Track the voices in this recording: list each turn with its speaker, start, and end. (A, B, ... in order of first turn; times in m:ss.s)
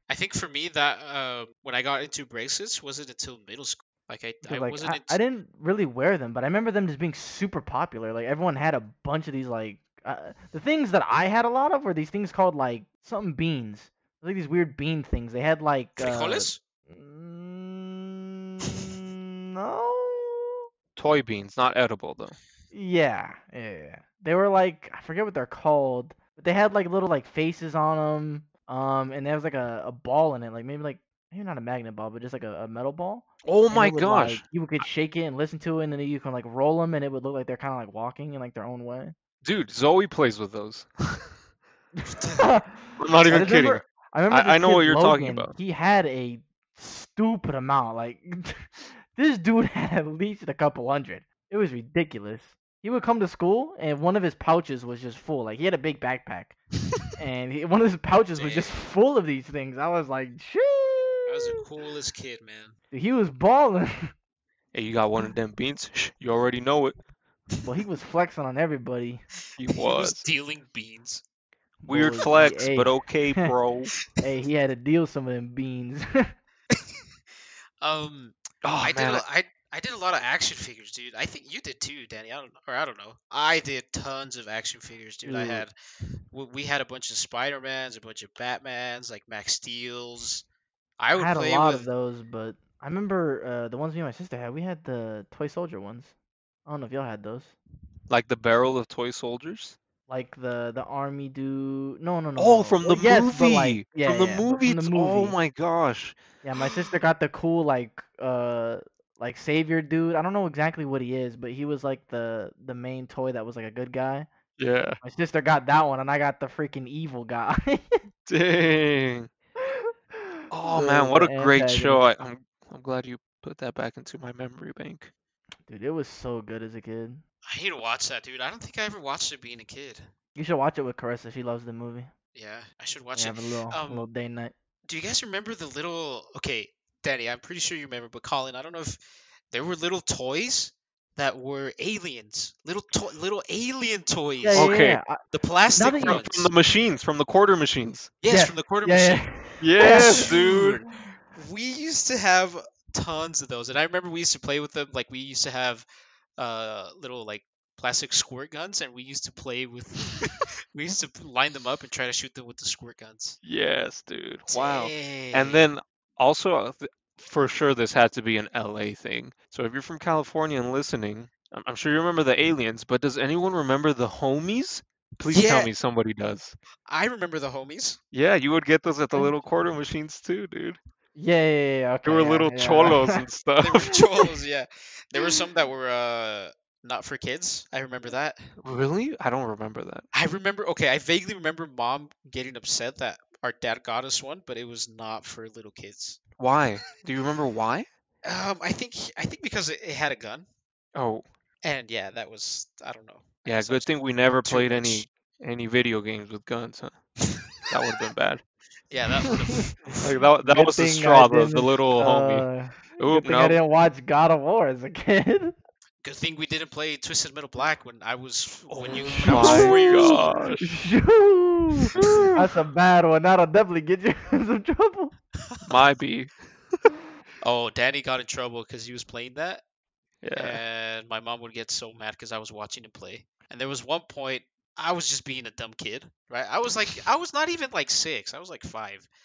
0:00.1-0:05.2 A
0:04.4-0:20.7 B
0:16.0-0:16.6 A
0:21.0-0:22.4 C
0:22.7-0:39.2 B
0:33.4-0:34.4 C
0:39.4-0:41.3 C
0:42.0-0:56.6 B
0:42.1-0:42.5 A
0:43.0-0:45.6 C
0:57.2-1:01.6 B
0:58.3-0:58.7 A
1:01.3-1:02.8 A
1:02.9-1:04.1 B
1:04.7-1:07.0 C
1:07.6-1:09.2 B
1:09.6-1:10.2 C
1:09.7-1:11.2 A
1:11.8-1:13.5 B
1:11.9-1:13.9 C
1:14.2-1:16.3 B
1:16.7-1:17.0 A
1:17.8-1:25.7 A
1:18.6-1:19.2 C
1:25.3-1:25.6 B
1:26.3-1:30.4 A
1:31.0-1:31.9 A
1:31.2-1:36.1 B
1:36.7-1:37.6 B
1:38.1-1:39.8 C
1:40.1-1:45.4 B
1:42.4-1:46.2 C
1:46.4-1:54.3 B
1:54.6-1:55.0 C
1:55.0-1:57.9 B
1:58.3-1:59.3 C
1:59.6-2:02.1 B
2:00.5-2:05.1 C
2:05.7-2:07.2 B
2:07.5-2:10.1 A
2:10.4-2:12.1 B
2:12.4-2:14.1 A
2:13.2-2:14.5 B
2:14.9-2:19.0 A
2:19.5-2:24.7 A
2:24.4-2:25.2 B
2:24.5-2:25.0 C
2:25.3-2:26.5 A
2:25.8-2:26.2 B
2:26.0-2:28.1 C
2:28.2-2:30.7 A
2:28.3-2:30.9 B
2:29.6-2:30.8 C
2:31.3-2:35.8 A
2:36.4-2:43.4 A
2:43.4-2:56.6 C
2:44.5-2:45.7 A
2:55.3-2:55.7 A
2:56.9-2:58.0 A
2:58.1-3:00.8 C
3:01.2-3:03.2 B
3:02.0-3:04.0 C
3:03.6-3:08.6 A
3:08.6-3:10.1 C
3:10.1-3:16.2 A
3:16.4-3:17.9 C
3:18.2-3:20.5 A
3:21.0-3:21.2 C
3:21.6-3:25.0 A
3:23.5-3:27.0 C
3:27.7-3:28.4 C
3:28.9-3:30.2 A
3:30.0-3:32.5 C
3:30.4-3:35.6 B
3:33.0-3:33.6 C
3:36.0-3:40.4 A
3:38.7-3:40.7 C
3:39.2-3:45.1 B
3:41.9-3:42.4 C
3:45.6-3:46.3 C
3:47.4-3:49.6 A
3:50.2-3:50.6 C
3:50.4-3:59.1 A